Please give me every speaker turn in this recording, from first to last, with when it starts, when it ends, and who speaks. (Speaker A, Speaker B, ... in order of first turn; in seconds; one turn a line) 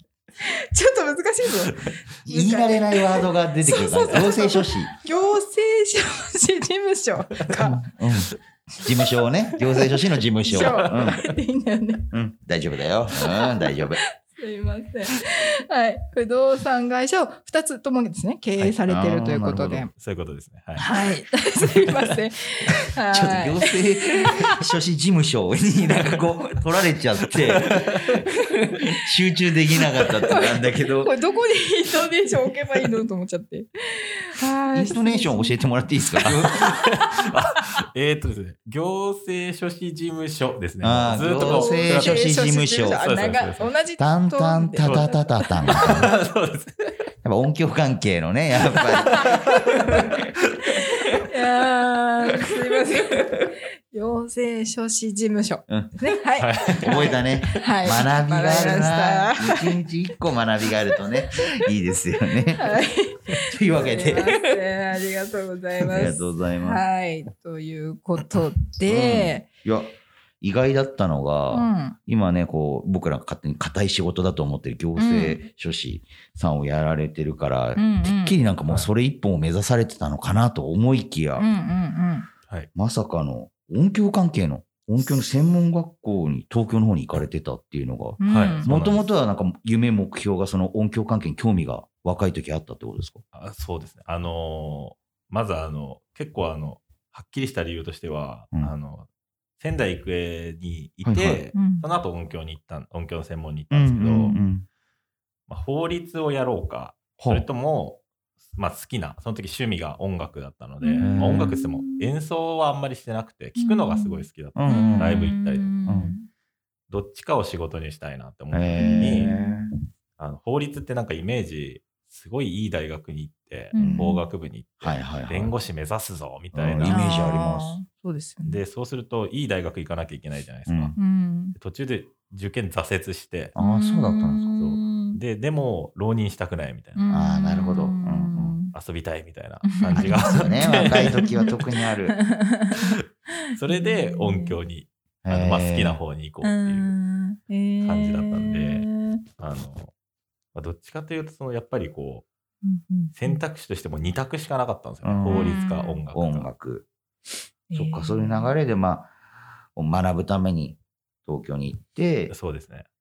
Speaker A: 0.4-7.8
Speaker B: 2.2-4.9
Speaker B: 7.5-11.3
Speaker A: 9.8-12.1
Speaker B: 12.1-14.0
Speaker A: 13.2-19.9
Speaker B: 18.9-19.9
Speaker C: 19.9-21.1
Speaker A: 20.8-24.6
Speaker B: 23.1-31.1
Speaker C: 27.3-28.2
Speaker A: 30.3-35.6
Speaker B: 34.7-36.7
Speaker C: 36.2-42.3
Speaker A: 36.5-37.0
Speaker B: 40.8-43.0
Speaker A: 41.2-45.9
Speaker C: 42.9-43.7
Speaker B: 44.0-46.1
Speaker C: 44.8-45.1
Speaker C: 45.7-46.7
Speaker B: 47.2-49.5
Speaker A: 49.0-50.1
Speaker C: 49.1-49.6
Speaker A: 50.7-59.7
Speaker B: 55.7-56.0
Speaker C: 56.4-57.1
Speaker B: 56.7-62.8
Speaker A: 62.5-69.5
Speaker B: 63.4-64.5
Speaker B: 65.8-66.8
Speaker B: 68.9-81.5
Speaker A: 71.5-72.0
Speaker A: 75.0-75.4
Speaker A: 77.8-78.4
Speaker A: 81.4-82.3
Speaker B: 82.8-93.2
Speaker A: 88.2-88.7
Speaker C: 88.3-89.0
Speaker C: 93.3-99.1
Speaker C: 99.6-104.4
Speaker B: 101.0-101.5
Speaker A: 101.5-101.8
Speaker B: 103.7-104.7
Speaker C: 105.5-108.0
Speaker B: 107.2-107.5
Speaker C: 108.6-115.8
Speaker A: 110.8-112.1
Speaker B: 111.0-111.6
Speaker A: 113.6-116.3
Speaker B: 114.5-115.3
Speaker B: 115.9-116.1
Speaker C: 116.9-119.3
Speaker B: 118.5-119.7
Speaker A: 118.8-119.7
Speaker C: 120.2-127.1
Speaker A: 123.7-124.2
Speaker B: 123.8-124.2
Speaker B: 124.8-125.5
Speaker B: 126.5-127.8
Speaker A: 126.8-128.6
Speaker C: 128.4-131.0
Speaker B: 130.7-130.9
Speaker A: 131.0-131.6
Speaker C: 131.6-133.5
Speaker B: 133.6-134.5
Speaker A: 133.6-135.2
Speaker C: 134.6-137.0
Speaker A: 137.0-138.7
Speaker B: 137.1-138.6
Speaker C: 138.7-141.3
Speaker A: 139.7-141.5
Speaker B: 139.9-142.2
Speaker A: 142.1-143.0
Speaker C: 143.6-146.9
Speaker A: 143.7-144.6
Speaker B: 145.2-146.0
Speaker A: 146.4-149.2
Speaker C: 147.8-149.9
Speaker C: 150.5-152.3
Speaker A: 152.6-153.4
Speaker C: 153.1-156.5
Speaker B: 155.0-156.9
Speaker A: 155.3-156.0
Speaker A: 157.7-158.5
Speaker B: 157.8-159.1
Speaker B: 159.8-162.3
Speaker C: 162.3-162.9